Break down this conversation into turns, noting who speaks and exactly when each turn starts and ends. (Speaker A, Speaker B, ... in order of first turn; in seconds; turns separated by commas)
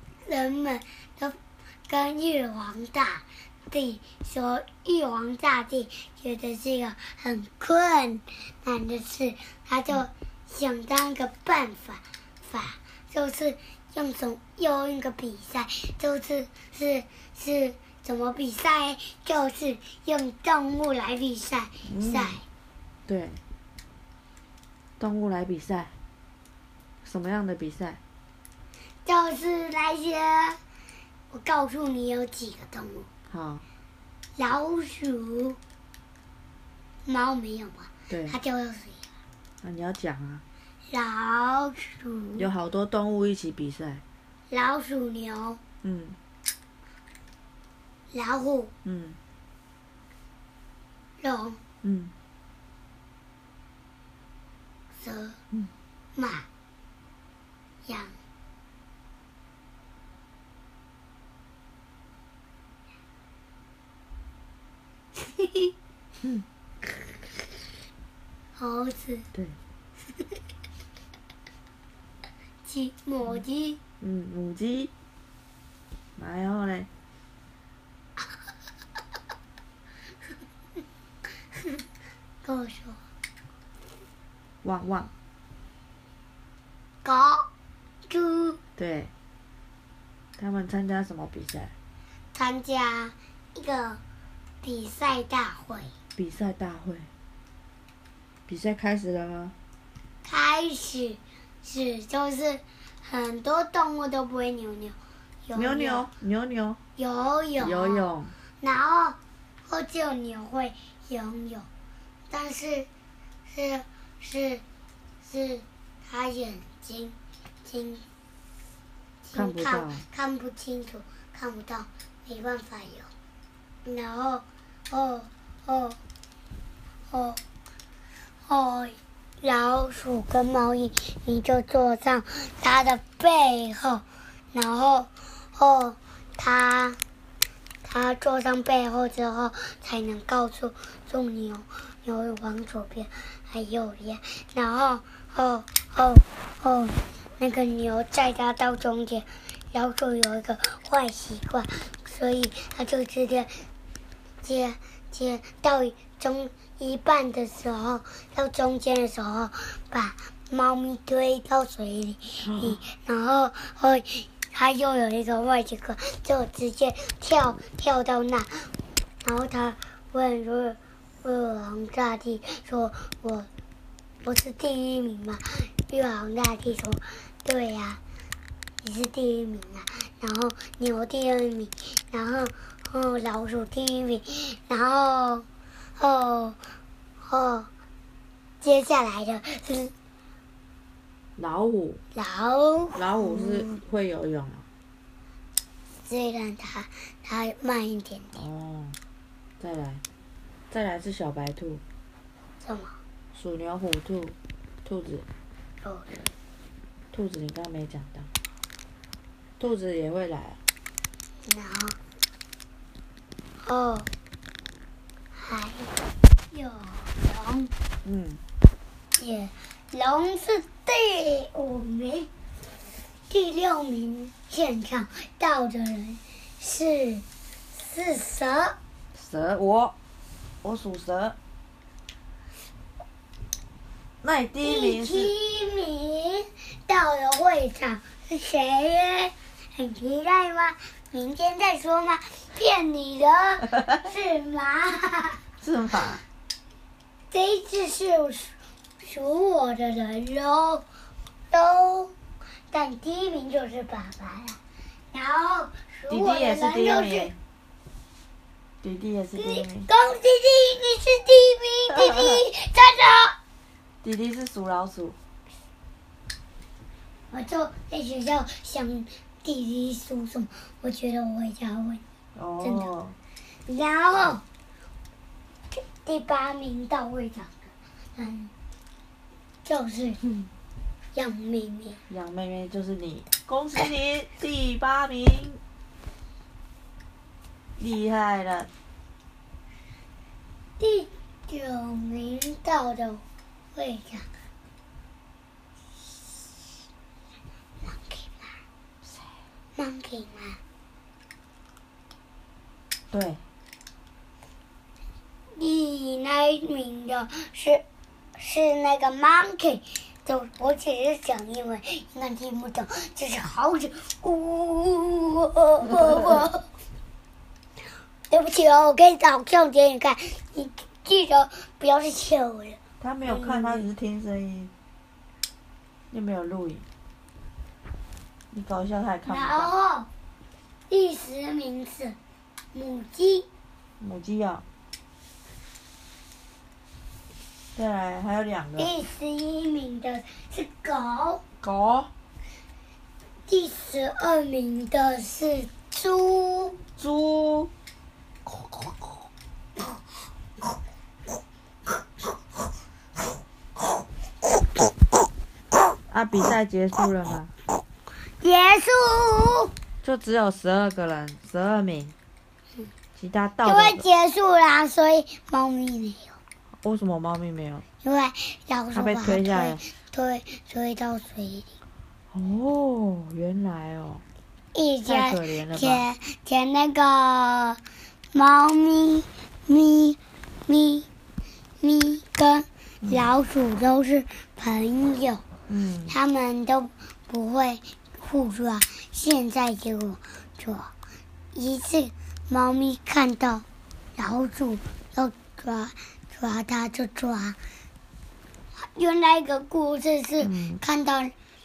Speaker A: 0.2-22.4, Speaker B: 21.9-22.4, Speaker B: 23.1-23.4, Speaker B: 25.0-25.9, Speaker B: 27.0-28.0, Speaker A: 29.1-30.6, Speaker A: 31.3-33.1, Speaker B: 33.3-33.6, Speaker A: 34.4-35.6, Speaker A: 37.1-39.1, Speaker B: 38.1-38.4, Speaker B: 39.6-40.4, Speaker A: 40.9-42.5, Speaker B: 42.4-44.0, Speaker A: 44.5-45.6, Speaker B: 45.8-46.2, Speaker A: 48.1-48.7, Speaker B: 48.9-49.2, Speaker A: 51.2-51.6, Speaker B: 51.8-52.1, Speaker A: 55.0-55.4, Speaker A: 56.1-56.5, Speaker A: 57.9-58.1, Speaker A: 65.2-65.7, Speaker A: 68.6-69.3, Speaker A: 72.7-73.8, Speaker B: 74.0-74.9, Speaker B: 76.2-76.9, Speaker A: 81.6-81.8, Speaker A: 82.4-83.0, Speaker B: 84.6-85.1, Speaker A: 87.0-87.5, Speaker A: 88.1-88.6, Speaker B: 88.8-89.1, Speaker B: 90.4-91.7, Speaker A: 92.3-94.0, Speaker A: 94.6-95.9, Speaker B: 96.2-97.1, Speaker B: 98.5-99.5, Speaker A: 100.2-106.1, Speaker B: 105.5-106.8, Speaker A: 107.0-108.1, Speaker B: 107.6-108.3, Speaker A: 108.6-111.7, Speaker A: 112.3-112.9, Speaker A: 113.5-114.6, Speaker A: 115.2-118.0, Speaker A: 119.2-123.1, Speaker B: 119.3-120.0, Speaker A: 123.8-126.0, Speaker A: 127.1-127.4, Speaker A: 128.5-137.0, Speaker A: 137.8-153.6, Speaker A: 154.4-168.7, Speaker B: 162.4-162.8, Speaker A: 169.2-173.5, Speaker A: 174.2-178.0, Speaker A: 178.8-185.5, Speaker A: 186.0-186.6, Speaker A: 187.2-187.7, Speaker A: 188.6-189.9, Speaker B: 191.4-192.0, Speaker A: 192.1-193.8, Speaker B: 192.9-194.7, Speaker A: 196.1-198.5, Speaker B: 198.4-199.0, Speaker B: 199.6-200.0, Speaker B: 200.7-201.8, Speaker A: 202.6-203.0, Speaker B: 203.3-205.3, Speaker A: 205.8-206.2, Speaker B: 207.1-208.3, Speaker B: 209.6-210.6, Speaker A: 211.5-212.0, Speaker A: 213.6-214.1, Speaker A: 215.3-215.9, Speaker A: 216.5-217.7, Speaker B: 218.1-218.4, Speaker A: 219.2-222.3, Speaker A: 223.3-228.8, Speaker B: 229.1-229.9, Speaker B: 230.6-231.4, Speaker B: 234.2-235.3, Speaker A: 234.6-245.4, Speaker B: 245.6-246.2, Speaker A: 247.3-250.9, Speaker A: 251.5-252.1, Speaker A: 252.7-254.6, Speaker A: 255.1-257.3, Speaker B: 256.1-257.4, Speaker B: 258.8-259.9, Speaker A: 259.4-263.4, Speaker B: 264.0-265.2, Speaker A: 267.3-272.0, Speaker B: 272.4-273.2, Speaker A: 272.6-272.9, Speaker A: 273.7-274.4, Speaker A: 275.7-278.5, Speaker A: 279.6-280.2, Speaker A: 281.1-282.0, Speaker B: 282.1-285.6, Speaker B: 287.8-288.7, Speaker A: 290.8-294.3, Speaker A: 297.8-298.6, Speaker A: 299.8-300.6, Speaker B: 303.1-303.4, Speaker A: 305.6-307.8, Speaker A: 308.4-316.7, Speaker A: 318.3-323.8, Speaker B: 323.0-324.7, Speaker B: 326.1-326.9, Speaker B: 328.5-329.7, Speaker A: 329.3-330.1, Speaker A: 330.9-332.2, Speaker A: 332.7-333.5, Speaker B: 334.0-334.6, Speaker B: 337.8-338.9, Speaker A: 338.8-341.4, Speaker B: 341.6-342.1, Speaker A: 343.5-346.8, Speaker B: 347.0-347.7, Speaker B: 356.1-357.5, Speaker A: 358.4-359.7, Speaker B: 360.0-362.1, Speaker B: 363.2-364.0, Speaker A: 363.6-366.4, Speaker B: 366.8-367.8, Speaker A: 368.0-371.7, Speaker B: 368.9-369.8, Speaker B: 372.3-374.2, Speaker A: 374.7-377.8, Speaker B: 375.1-376.0, Speaker A: 378.3-381.1, Speaker A: 381.8-385.4, Speaker B: 385.7-386.2, Speaker A: 386.1-390.9, Speaker A: 391.5-393.6, Speaker A: 394.2-397.6, Speaker A: 398.8-401.3, Speaker B: 400.4-400.8